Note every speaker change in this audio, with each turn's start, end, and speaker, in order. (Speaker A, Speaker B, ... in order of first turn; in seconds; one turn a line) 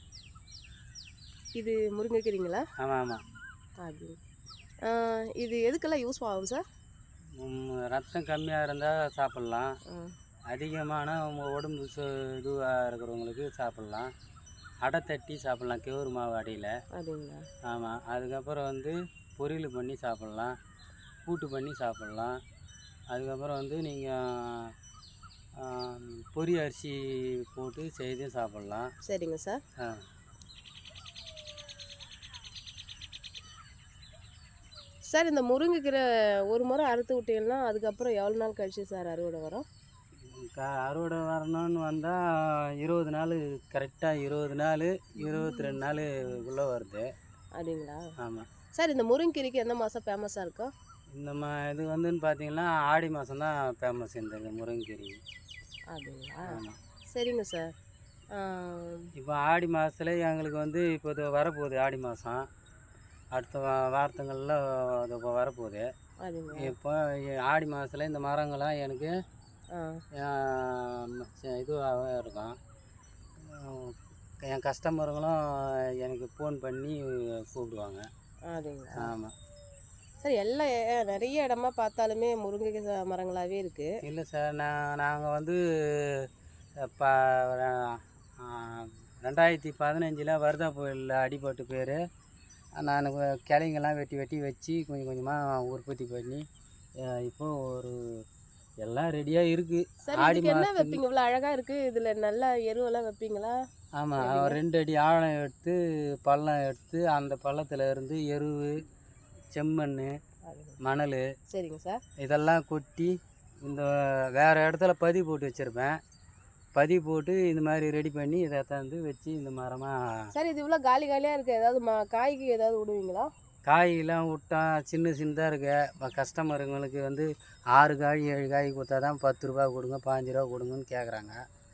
Speaker A: 1.6-2.6
Speaker B: 2.8-3.2
Speaker A: 3.8-4.2
Speaker A: 4.8-6.6
Speaker B: 7.4-9.7
Speaker B: 10.5-14.1
Speaker B: 14.8-16.7
Speaker A: 16.9-17.4
Speaker B: 17.6-20.5
Speaker B: 21.2-22.4
Speaker B: 23.1-24.7
Speaker B: 25.6-28.9
Speaker A: 29.1-29.6
Speaker A: 35.1-39.6
Speaker B: 40.3-47.0
Speaker A: 45.2-45.8
Speaker A: 47.6-48.0
Speaker B: 48.2-48.5
Speaker A: 48.7-50.7
Speaker B: 51.1-55.2
Speaker A: 55.9-56.6
Speaker B: 56.5-56.8
Speaker A: 57.1-57.7
Speaker A: 58.4-59.1
Speaker B: 59.2-62.4
Speaker B: 63.4-65.8
Speaker A: 66.2-66.7
Speaker B: 66.6-69.1
Speaker A: 69.7-70.0
Speaker B: 70.2-72.5
Speaker B: 73.4-78.0
Speaker A: 78.5-79.1
Speaker B: 79.0-79.3
Speaker A: 80.2-83.9
Speaker B: 84.0-86.3
Speaker B: 86.9-92.0
Speaker B: 92.8-96.4
Speaker B: 97.0-98.0
Speaker B: 98.8-101.0
Speaker A: 100.1-103.5
Speaker B: 104.0-108.8
Speaker A: 104.2-104.6
Speaker B: 109.5-110.1
Speaker A: 110.5-110.8
Speaker B: 110.8-111.2
Speaker A: 111.5-112.0
Speaker B: 112.2-113.1
Speaker B: 113.6-116.0
Speaker B: 116.8-120.0
Speaker A: 120.3-123.3
Speaker B: 123.7-131.3